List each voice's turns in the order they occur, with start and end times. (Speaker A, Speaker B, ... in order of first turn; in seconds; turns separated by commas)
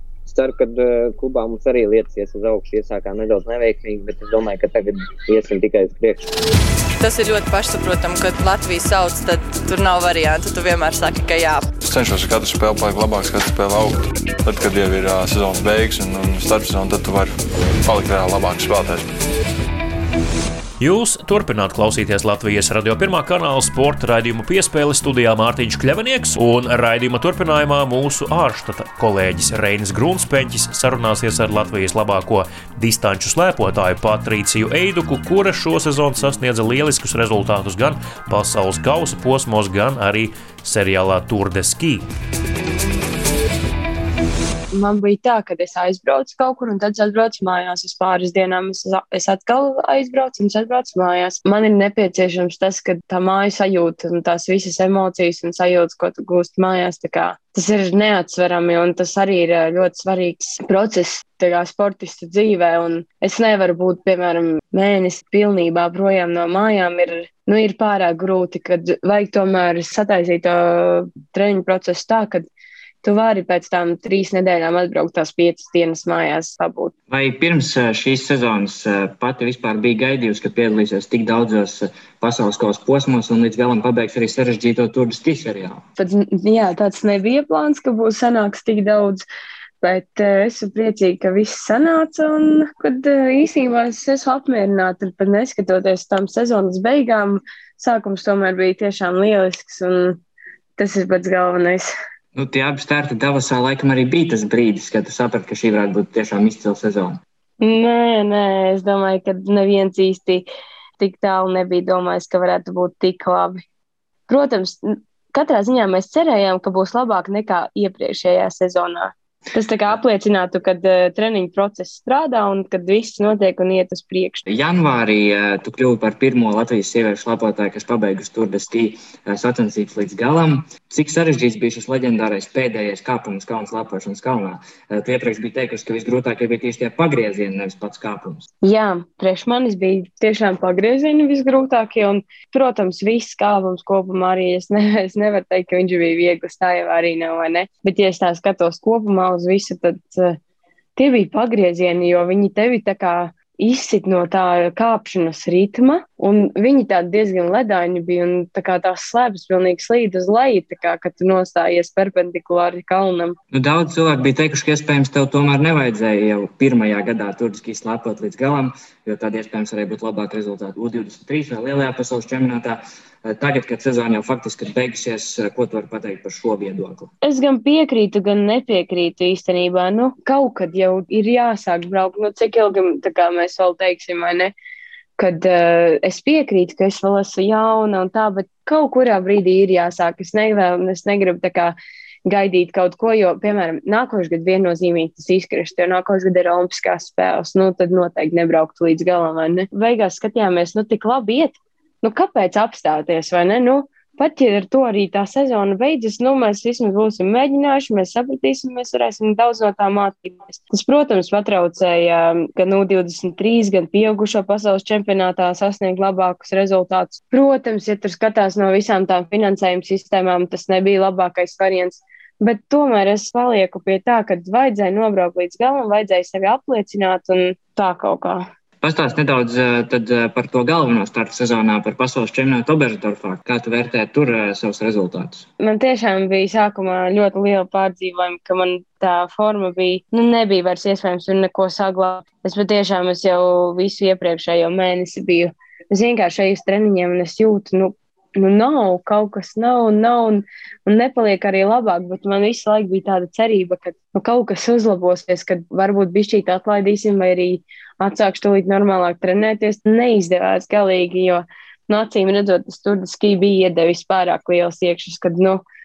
Speaker A: 0.3-6.3, Speaker B: 7.0-11.7, Speaker C: 11.8-19.1, Speaker D: 20.8-42.1, Speaker E: 44.7-72.5, Speaker E: 73.0-76.9, Speaker F: 77.1-85.8, Speaker E: 86.0-89.2, Speaker E: 89.8-100.2, Speaker E: 100.8-101.9, Speaker F: 102.3-107.2, Speaker E: 107.6-110.5, Speaker E: 111.0-113.6, Speaker E: 114.3-124.4, Speaker F: 124.5-138.5, Speaker E: 138.6-150.4, Speaker E: 151.0-163.4, Speaker F: 163.5-177.1, Speaker E: 177.2-184.5, Speaker E: 185.2-191.8, Speaker E: 192.3-228.4, Speaker F: 228.8-235.5, Speaker E: 235.6-265.6